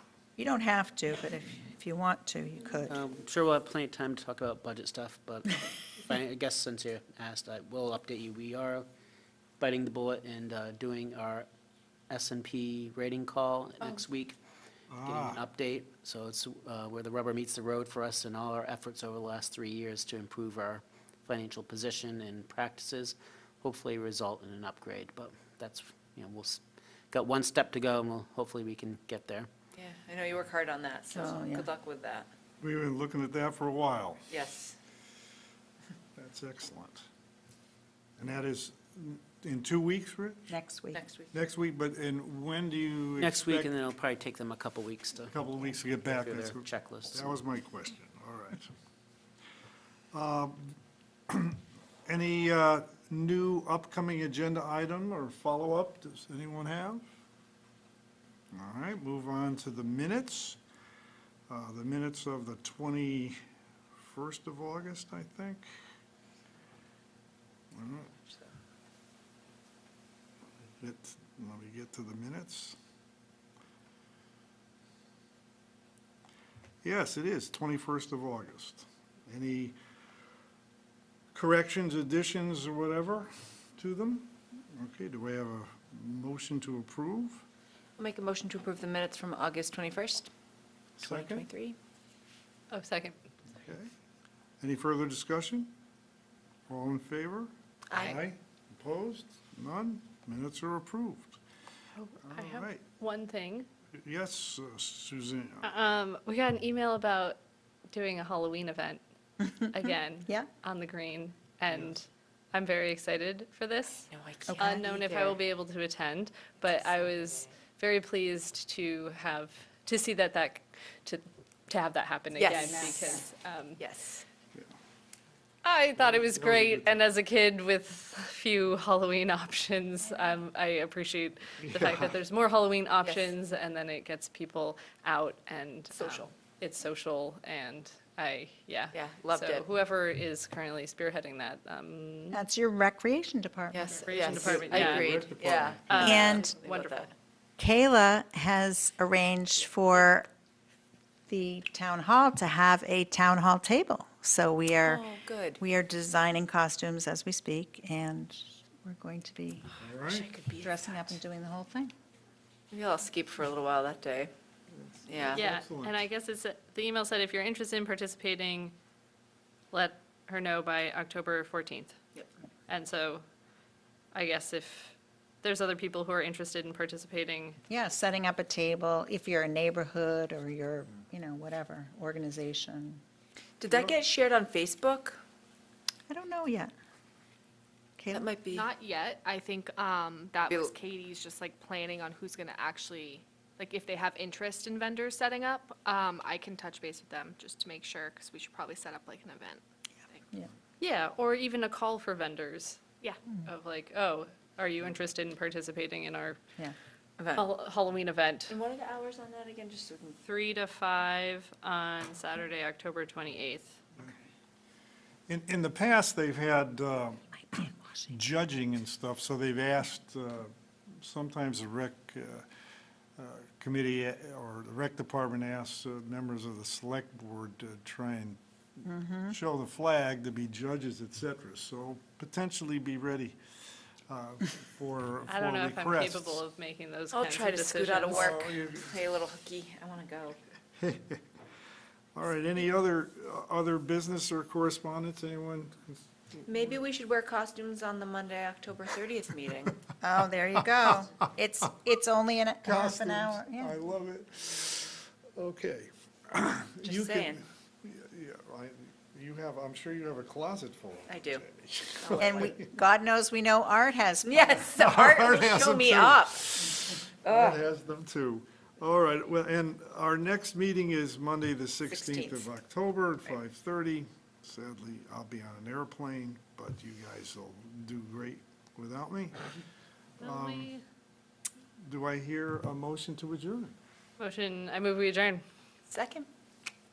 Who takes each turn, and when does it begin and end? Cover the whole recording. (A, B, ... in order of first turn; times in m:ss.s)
0:00.4-0:03.0 A
0:02.9-0:08.9 B
0:09.6-0:11.5 B
0:12.1-0:14.4 B
0:14.9-0:15.4 C
0:15.0-0:29.5 B
0:29.8-0:32.3 D
0:31.1-0:31.7 A
0:32.6-0:34.3 C
0:34.3-0:34.8 D
0:36.2-0:37.1 C
0:38.2-0:40.5 C
0:40.5-0:41.0 A
0:40.9-0:41.3 D
0:41.3-0:43.7 C
0:43.2-0:47.4 B
0:45.3-0:48.7 C
0:50.1-0:50.8 C
0:51.3-0:57.1 C
0:58.5-1:00.6 C
1:01.5-1:03.4 C
1:04.0-1:05.7 C
1:07.7-1:08.1 C
1:10.8-1:12.8 C
1:16.8-1:19.8 C
1:21.3-1:27.4 C
1:28.0-1:30.3 D
1:31.0-1:31.8 D
1:31.0-1:31.5 C
1:32.7-1:33.2 E
1:33.6-1:33.9 C
1:34.6-1:35.7 C
1:36.7-1:41.4 C
1:37.9-1:38.2 D
1:42.0-1:43.7 E
1:42.2-1:42.8 C
1:44.0-1:45.7 C
1:45.6-1:47.4 E
1:47.9-1:49.0 E
1:49.6-2:03.8 E
1:54.1-1:55.4 D
1:54.5-1:54.8 A
2:02.4-2:03.2 D
2:03.8-2:04.2 D
2:05.6-2:22.4 E
2:06.0-2:07.0 C
2:11.6-2:12.1 C
2:13.0-2:13.3 D
2:15.9-2:16.3 D
2:18.9-2:19.6 D
2:22.3-2:23.8 A
2:23.7-2:27.1 D
2:23.8-2:25.2 E
2:24.3-2:26.2 C
2:25.9-2:27.1 E
2:26.0-2:26.6 A
2:27.6-2:30.3 A
2:31.3-2:35.1 A
2:34.8-2:35.6 D
2:35.6-2:39.7 A
2:39.8-2:40.3 C
2:40.0-2:41.2 D
2:40.6-2:41.9 A
2:42.7-2:44.3 D
2:44.7-2:46.0 C
2:45.1-2:45.5 D
2:45.4-2:48.8 E
2:49.7-2:52.0 E
2:52.7-2:53.2 E
2:54.1-2:57.6 E
2:57.7-3:03.0 A
3:03.6-3:05.2 D
3:03.7-3:04.0 C
3:06.1-3:06.7 A
3:08.0-3:08.3 A
3:08.1-3:08.7 D
3:08.5-3:19.6 F
3:10.5-3:10.7 D
3:20.8-3:22.8 E
3:23.4-3:26.4 E
3:27.2-3:27.5 D
3:27.3-3:28.6 E
3:28.5-3:30.2 D
3:30.2-3:33.8 E
3:35.3-3:42.5 C
3:43.2-3:48.4 C
3:48.8-3:49.4 A
3:49.3-3:53.4 C
3:54.1-3:56.4 C
3:55.3-3:58.3 E
3:57.1-4:00.4 D
3:58.1-3:58.9 C
4:00.8-4:01.2 C
4:02.2-4:06.6 C
4:06.5-4:09.8 D
4:10.0-4:13.8 A
4:12.6-4:22.7 C
4:16.8-4:17.4 D
4:21.1-4:21.4 D
4:22.0-4:22.4 D
4:22.2-4:24.7 A
4:24.3-4:27.6 D
4:24.7-4:39.5 C
4:31.9-4:32.5 D
4:40.2-4:40.7 C
4:40.2-4:40.8 E
4:41.8-4:43.8 C
4:44.2-4:45.4 E
4:45.9-4:46.3 D